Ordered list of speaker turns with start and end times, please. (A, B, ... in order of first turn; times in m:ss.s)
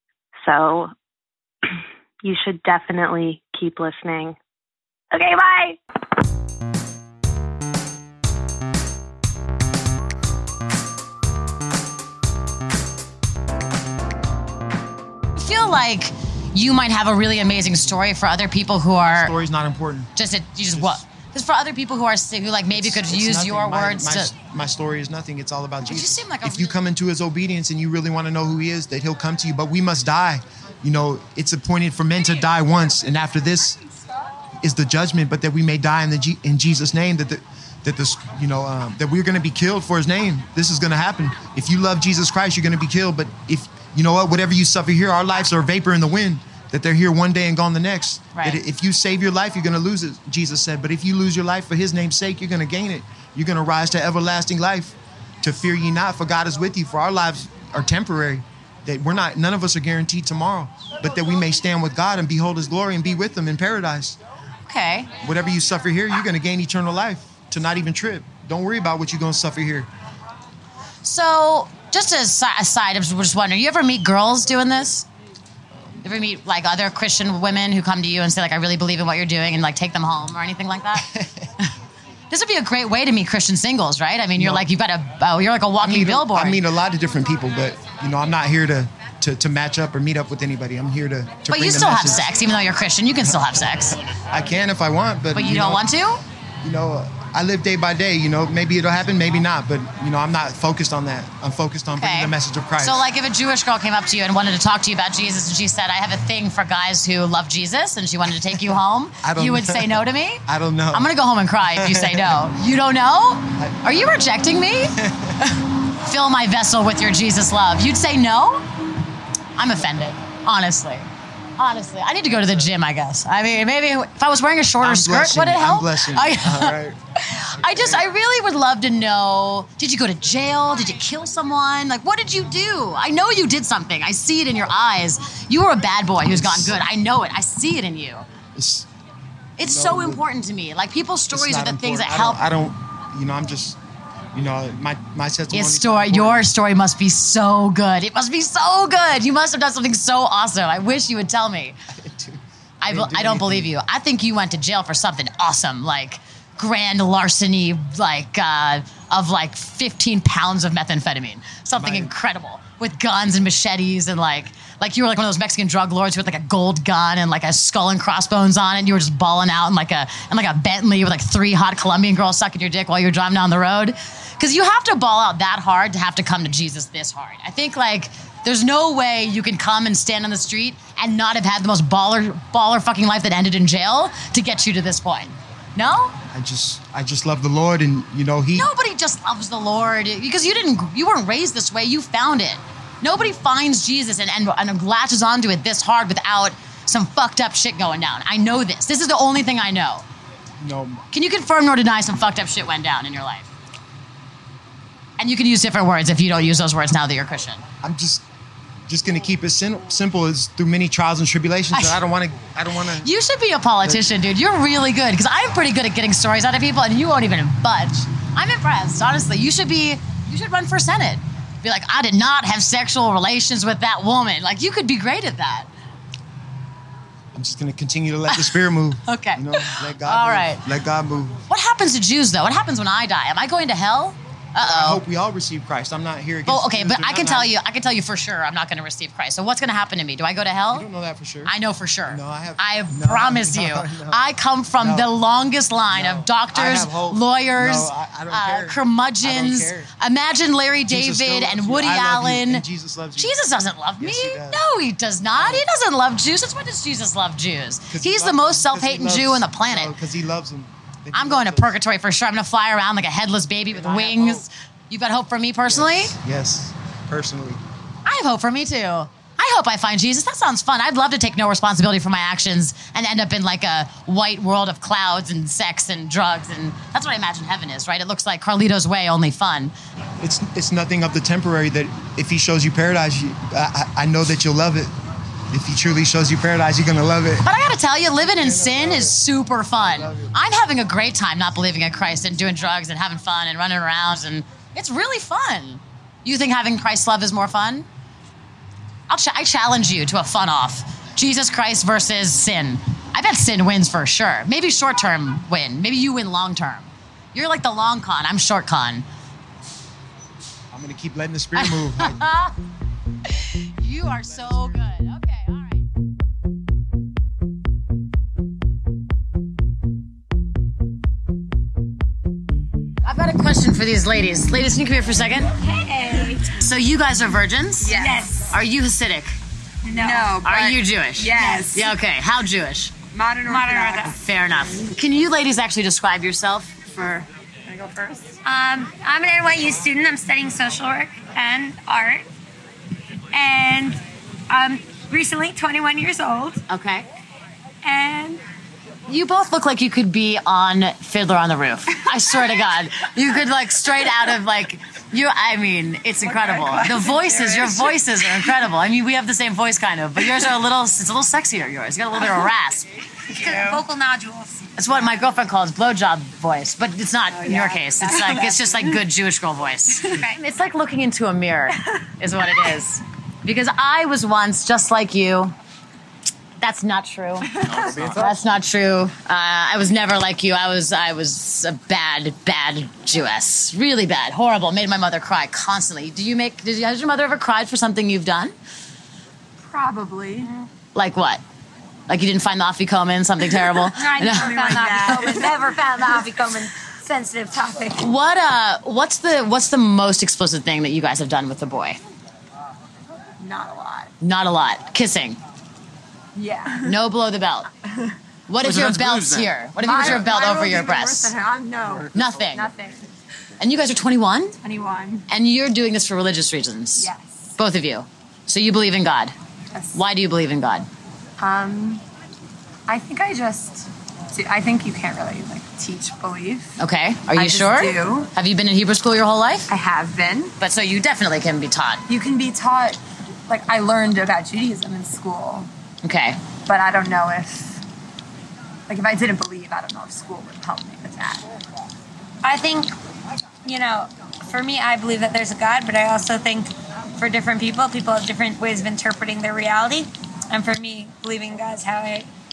0:00.4-0:00.9 A
0:01.7-0:04.4 A
0:05.1-0:05.8 A
0:15.4-0:19.3 B
0:19.1-0:20.1 C
0:20.2-0:24.3 B
0:20.7-0:21.0 C
0:22.7-0:33.8 C
0:25.9-0:26.8 B
0:34.6-1:04.2 C
0:48.3-0:48.6 B
1:04.7-1:05.1 B
1:05.2-1:09.9 C
1:11.0-1:15.1 B
1:15.7-1:16.0 C
1:16.0-1:21.1 B
1:21.0-1:21.4 C
1:22.3-1:26.6 B
1:24.4-1:24.7 C
1:25.8-1:32.3 C
1:31.5-1:34.0 B
1:34.3-1:36.0 C
1:35.3-1:36.2 B
1:36.6-1:43.0 C
1:41.9-1:58.6 B
1:49.2-1:51.1 C
1:51.7-1:52.4 C
1:53.6-1:53.8 C
1:55.0-1:55.4 C
1:59.6-2:18.2 B
2:04.8-2:07.0 C
2:07.6-2:08.0 C
2:16.2-2:16.8 C
2:18.5-2:18.9 C
2:19.6-2:22.4 B
2:19.6-2:20.2 C
2:21.3-2:23.8 C
2:24.3-2:26.4 C
2:25.5-2:31.8 B
2:31.9-2:33.7 C
2:32.8-3:06.1 B
2:41.8-2:42.1 C
3:06.3-3:08.7 C
3:08.6-3:20.0 B
3:20.6-3:21.0 C
3:21.1-3:23.5 B
3:25.2-3:27.6 B
3:27.8-3:28.2 C
3:28.9-3:33.1 C
3:31.7-3:32.0 B
3:33.0-3:45.7 B
3:47.3-3:51.4 C
3:48.3-3:50.6 B
3:51.5-3:55.0 B
3:54.6-3:57.5 C
3:56.4-4:00.9 B
4:00.7-4:01.5 C
4:01.4-4:19.9 B
4:02.1-4:04.2 C
4:04.8-4:05.1 C
4:05.9-4:09.9 C
4:10.9-4:13.4 C
4:14.0-4:14.7 C
4:15.3-4:15.7 C
4:17.9-4:21.8 C
4:21.1-4:26.2 B
4:23.7-4:24.4 C
4:25.6-4:27.6 C
4:28.0-4:39.7 B
4:40.2-4:44.9 C
4:45.5-4:47.5 C
4:47.4-4:57.9 B
4:48.4-4:49.2 C
4:49.8-4:50.3 C
4:59.1-5:09.0 B
5:10.7-5:12.3 C
5:11.6-5:12.5 B
5:13.3-5:15.8 B
5:23.0-5:25.5 B
5:25.6-5:26.5 D
5:26.6-5:27.9 B
5:27.8-5:28.4 E
5:27.9-5:28.5 D
5:28.5-5:29.4 B
5:29.8-5:30.4 D
5:30.0-5:31.9 E
5:30.4-5:32.9 B
5:31.4-5:31.6 D
5:33.1-5:34.1 E
5:33.5-5:34.2 D
5:34.0-5:37.2 B
5:37.1-5:38.4 E
5:38.4-5:42.2 D
5:43.3-5:46.6 D
5:46.7-5:47.1 B
5:47.8-5:48.4 D
5:49.1-6:02.9 B
5:56.6-5:57.9 D
6:03.3-6:04.7 D
6:04.8-6:15.5 B
6:07.4-6:07.8 E
6:08.0-6:08.6 D
6:10.0-6:10.4 D
6:16.6-6:28.5 B
6:17.5-6:18.0 E
6:29.6-6:30.5 E
6:30.9-6:31.4 B
6:32.1-6:35.2 B
6:33.9-6:38.1 D
6:34.2-6:35.6 E
6:38.0-6:42.0 B
6:43.4-6:44.1 E
6:44.2-6:45.4 B
6:46.3-6:46.9 E
6:46.8-6:47.7 B
6:47.9-6:48.1 E
6:48.5-6:51.3 B
6:49.8-6:53.1 E
6:52.1-6:52.7 B
6:53.6-6:54.6 B
6:54.6-6:55.2 E
6:55.3-6:59.3 B
6:57.0-6:57.5 E
6:59.7-7:00.0 E
6:59.9-7:00.9 B
7:01.4-7:02.0 E
7:02.9-7:06.7 E
7:06.8-7:09.7 B
7:07.3-7:08.3 E
7:09.7-7:10.5 E
7:10.6-7:12.0 B
7:12.1-7:15.7 E
7:16.0-7:16.4 B
7:16.6-7:17.8 E
7:18.9-7:21.5 E
7:22.4-7:22.9 D
7:23.6-7:32.3 D